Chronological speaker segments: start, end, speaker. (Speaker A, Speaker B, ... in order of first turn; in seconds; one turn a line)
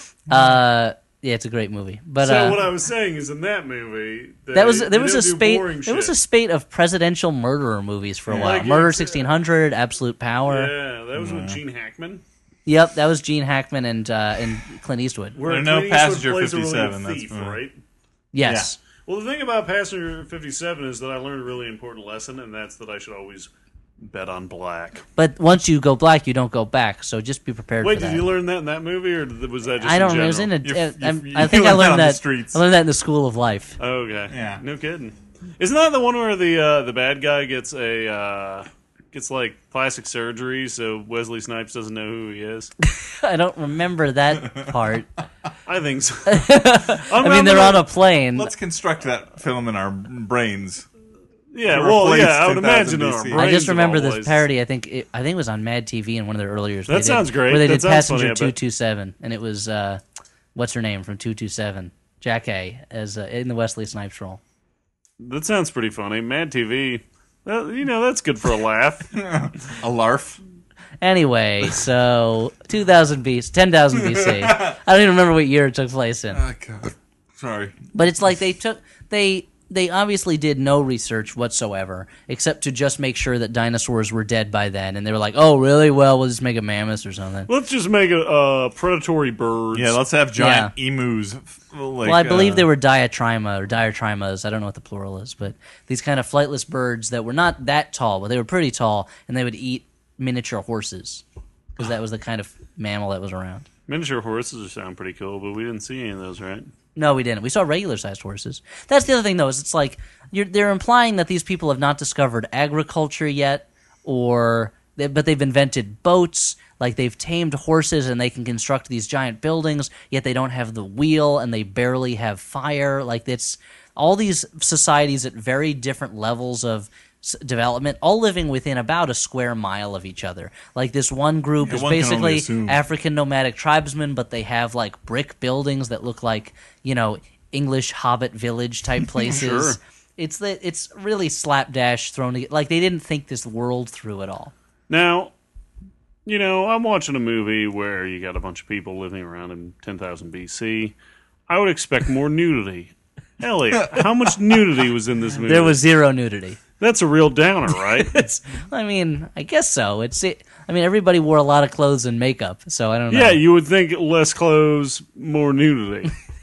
Speaker A: 0.3-2.6
Speaker B: 0.3-0.6
Speaker C: 2.2-6.1
Speaker A: 4.5-10.7
Speaker B: 8.3-8.7
Speaker C: 8.3-9.3
Speaker C: 10.4-12.2
Speaker B: 11.2-11.6
Speaker A: 12.7-15.4
Speaker C: 15.3-17.7
Speaker B: 15.4-17.6
Speaker A: 18.3-18.8
Speaker B: 18.4-18.7
Speaker C: 19.1-23.5
Speaker C: 24.0-25.0
Speaker A: 25.1-28.2
Speaker C: 27.8-30.5
Speaker A: 29.8-33.8
Speaker B: 30.6-32.6
Speaker C: 33.8-42.7
Speaker B: 34.3-34.6
Speaker A: 42.9-45.1
Speaker C: 45.6-47.9
Speaker A: 46.3-48.5
Speaker B: 48.3-50.9
Speaker C: 51.5-54.5
Speaker B: 51.6-53.5
Speaker A: 53.3-60.0
Speaker C: 56.9-58.5
Speaker A: 60.5-64.4
Speaker C: 65.2-69.1
Speaker B: 69.1-70.4
Speaker A: 71.0-76.4
Speaker B: 74.0-74.8
Speaker B: 76.3-77.7
Speaker A: 77.9-87.5
Speaker C: 87.5-90.0
Speaker B: 89.7-92.7
Speaker A: 90.4-90.7
Speaker A: 92.0-101.2
Speaker A: 101.8-103.7
Speaker C: 103.9-106.7
Speaker A: 107.0-144.5
Speaker B: 131.6-132.8
Speaker C: 139.2-139.8
Speaker C: 144.9-145.3
Speaker C: 146.2-150.9
Speaker C: 151.5-155.8
Speaker A: 155.5-156.6
Speaker C: 156.8-158.2
Speaker A: 158.0-163.4
Speaker C: 163.1-166.1